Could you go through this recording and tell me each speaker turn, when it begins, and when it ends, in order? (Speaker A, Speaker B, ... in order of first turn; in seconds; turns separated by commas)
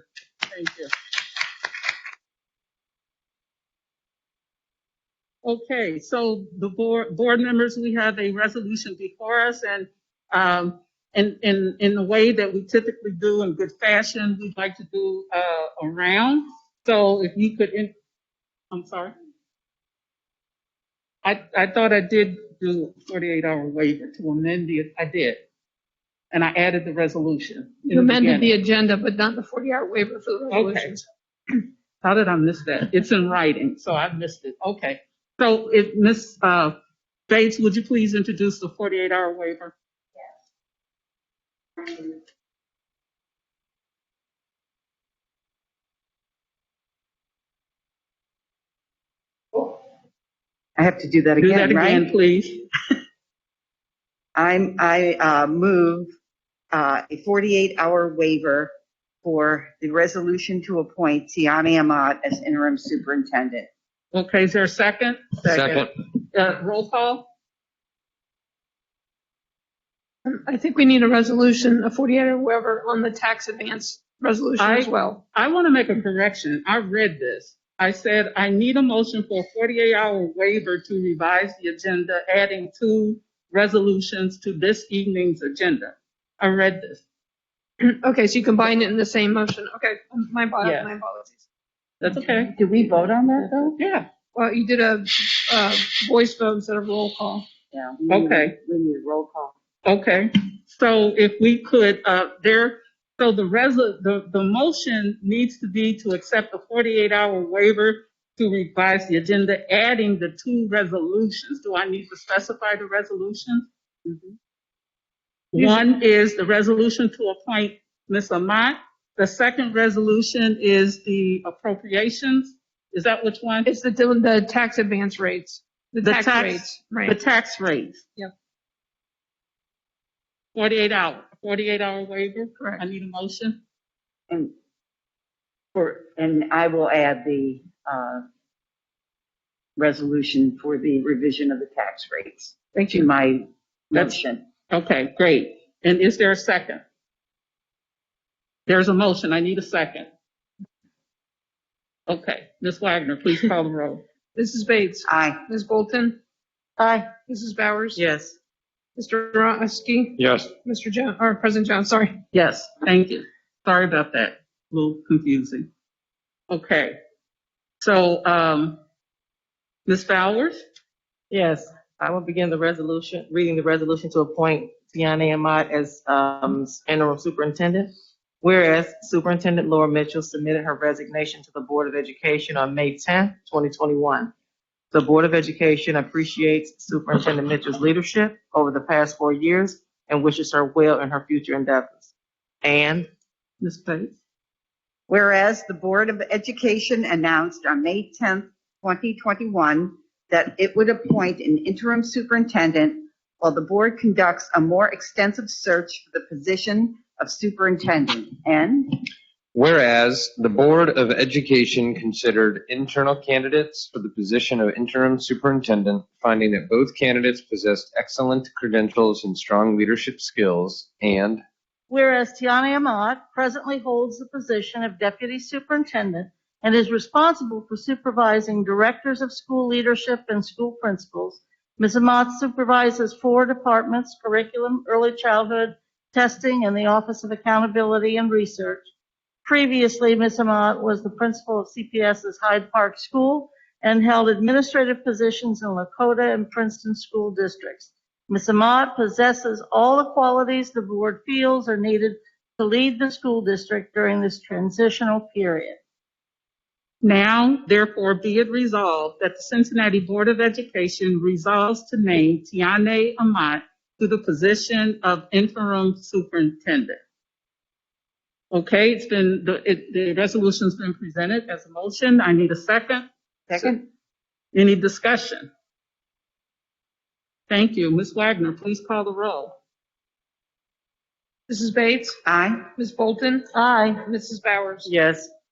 Speaker A: 0.5-0.9, Speaker A: 5.4-17.9, Speaker A: 18.7-19.1, Speaker A: 21.2-25.4, Speaker A: 26.3-28.6, Speaker B: 27.9-31.0, Speaker A: 30.5-30.9, Speaker A: 32.0-36.8, Speaker A: 37.3-39.7, Speaker C: 50.8-52.1, Speaker A: 51.4-52.6, Speaker C: 54.4-56.1, Speaker C: 56.7-58.7, Speaker C: 59.2-63.7, Speaker A: 64.1-67.3, Speaker D: 65.5-65.9, Speaker B: 70.3-75.2, Speaker A: 74.6-87.0, Speaker B: 87.8-91.4, Speaker A: 90.6-90.9, Speaker A: 92.0-92.5, Speaker C: 92.4-93.8, Speaker A: 93.8-94.1, Speaker B: 94.3-97.5, Speaker C: 97.7-99.5, Speaker A: 98.1-98.6, Speaker A: 99.8-113.7, Speaker A: 115.5-123.7, Speaker B: 115.6-115.8, Speaker B: 123.7-127.2, Speaker A: 126.0-128.1, Speaker A: 130.6-133.6, Speaker C: 135.8-138.2, Speaker C: 139.8-144.5, Speaker A: 142.8-143.1, Speaker A: 143.9-146.8, Speaker A: 148.7-150.1, Speaker A: 152.1-154.0, Speaker B: 154.4-156.2, Speaker C: 155.1-155.4, Speaker E: 156.8-157.1, Speaker B: 157.3-158.0, Speaker B: 159.0-162.2, Speaker D: 160.2-160.5, Speaker A: 162.3-165.7, Speaker A: 166.5-166.9, Speaker A: 167.8-168.8, Speaker A: 169.9-170.6, Speaker F: 171.3-177.9, Speaker F: 178.4-184.3, Speaker F: 184.9-192.1, Speaker F: 192.6-193.1, Speaker A: 193.6-194.1, Speaker C: 195.1-209.0, Speaker D: 209.5-221.4, Speaker E: 221.9-238.8, Speaker E: 239.4-255.8, Speaker A: 257.0-267.0, Speaker A: 268.5-273.1, Speaker C: 273.5-273.8, Speaker A: 274.5-275.5, Speaker A: 277.5-279.5, Speaker B: 281.5-282.2, Speaker C: 282.2-282.6, Speaker B: 282.8-283.5, Speaker E: 283.5-284.0, Speaker B: 284.0-284.9, Speaker F: 284.9-285.3